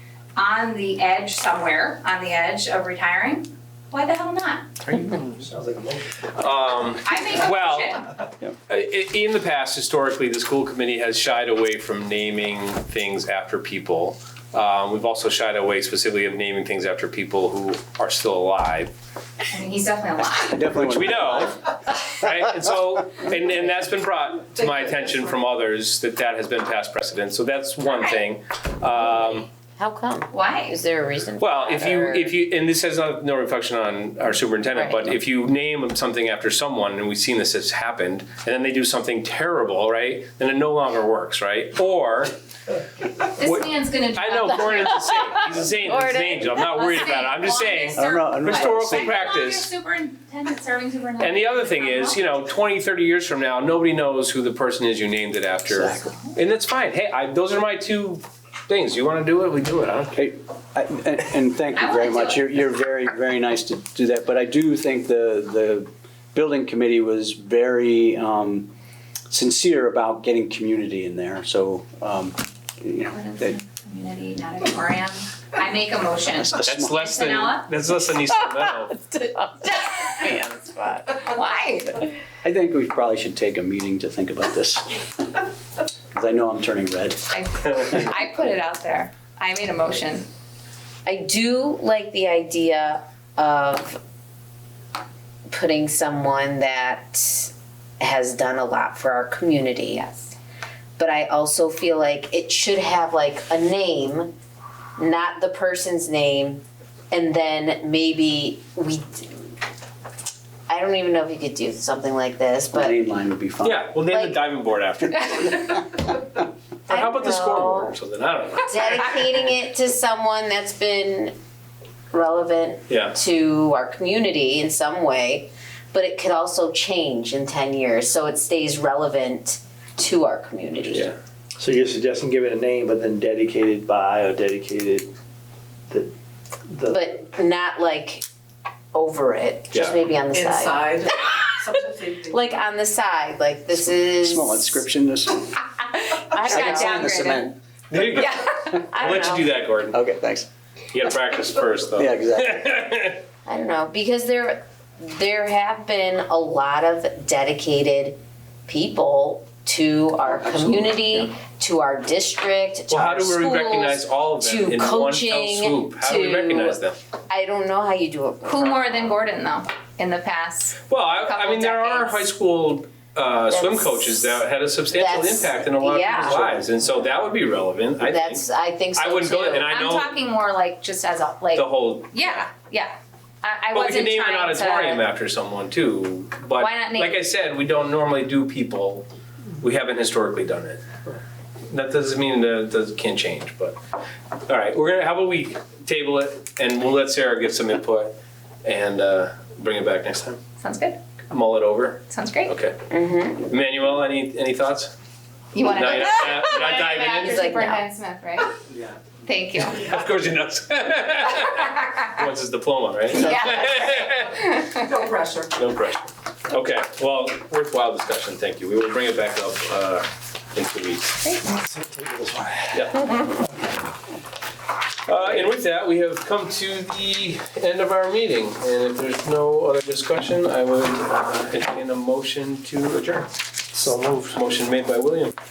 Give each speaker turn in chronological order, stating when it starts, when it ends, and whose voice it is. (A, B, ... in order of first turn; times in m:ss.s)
0:00.4-0:04.7 A
0:05.1-0:06.5 B
0:06.4-0:08.0 C
0:07.0-0:08.1 A
0:08.7-0:18.9 C
0:19.5-0:20.7 A
0:20.5-0:21.6 D
0:20.8-0:29.5 C
0:27.8-0:28.2 A
0:28.9-0:32.4 E
0:30.3-0:30.8 A
0:31.4-0:42.3 C
0:34.7-0:35.1 E
0:43.3-0:45.1 A
0:43.4-0:49.7 C
0:45.7-0:47.1 E
0:46.6-0:52.2 A
0:48.0-0:49.3 D
0:51.2-1:00.2 C
0:55.7-0:56.1 D
1:00.1-1:08.7 D
1:01.8-1:02.4 A
1:09.3-1:13.6 D
1:13.1-1:17.7 A
1:16.4-1:17.0 D
1:16.6-1:19.0 C
1:19.0-1:21.2 E
1:21.2-1:22.1 A
1:22.4-1:25.1 D
1:26.1-1:27.3 D
1:27.3-1:30.3 A
1:31.0-1:34.0 E
1:35.5-1:40.4 E
1:41.0-1:44.3 E
1:45.0-1:49.3 E
1:50.7-1:53.0 E
1:52.7-1:53.9 D
1:53.6-1:55.8 C
1:54.1-1:54.4 E
1:56.9-1:57.9 E
1:56.9-1:59.5 C
1:58.7-2:01.4 E
2:02.1-2:11.1 E
2:02.9-2:03.2 C
2:10.9-2:11.2 C
2:11.6-2:15.1 B
2:16.6-2:17.0 B
2:16.9-2:18.2 E
2:18.9-2:24.8 E
2:19.7-2:20.0 C
2:20.3-2:22.3 F
2:24.1-2:25.5 D
2:26.1-2:27.0 E
2:26.4-2:27.5 A
2:26.5-2:27.6 D
2:27.9-2:30.0 C
2:28.4-2:29.5 E
2:29.9-2:30.5 D
2:30.9-2:33.2 C
2:32.0-2:32.6 D
2:33.5-2:49.1 E
2:40.2-2:41.3 D
2:42.9-2:47.0 C
2:48.5-2:52.3 A
2:50.9-2:58.4 C
2:53.5-2:54.4 E
2:54.9-2:56.9 E
2:58.0-2:59.7 E
2:59.0-3:00.2 C
2:59.6-3:05.0 A
3:01.5-3:02.4 C
3:03.7-3:09.1 C
3:06.6-3:07.2 A
3:09.6-3:10.8 C
3:11.7-3:13.8 C
3:14.5-3:20.4 C
3:20.6-3:21.0 A
3:21.3-3:22.8 C
3:22.1-3:22.5 A
3:22.9-3:23.4 E
3:23.4-3:24.9 C
3:25.5-3:28.6 A
3:25.6-3:27.4 C
3:27.2-3:27.8 E
3:29.2-3:30.0 A
3:29.7-3:34.6 C
3:33.2-3:34.1 E
3:33.2-3:34.9 A
3:35.0-3:35.5 F
3:35.5-3:41.2 C
3:41.2-3:41.5 A
3:41.5-3:43.3 B
3:42.7-3:43.1 C
3:45.1-3:53.3 C
3:53.7-3:54.4 B
3:54.3-3:55.4 C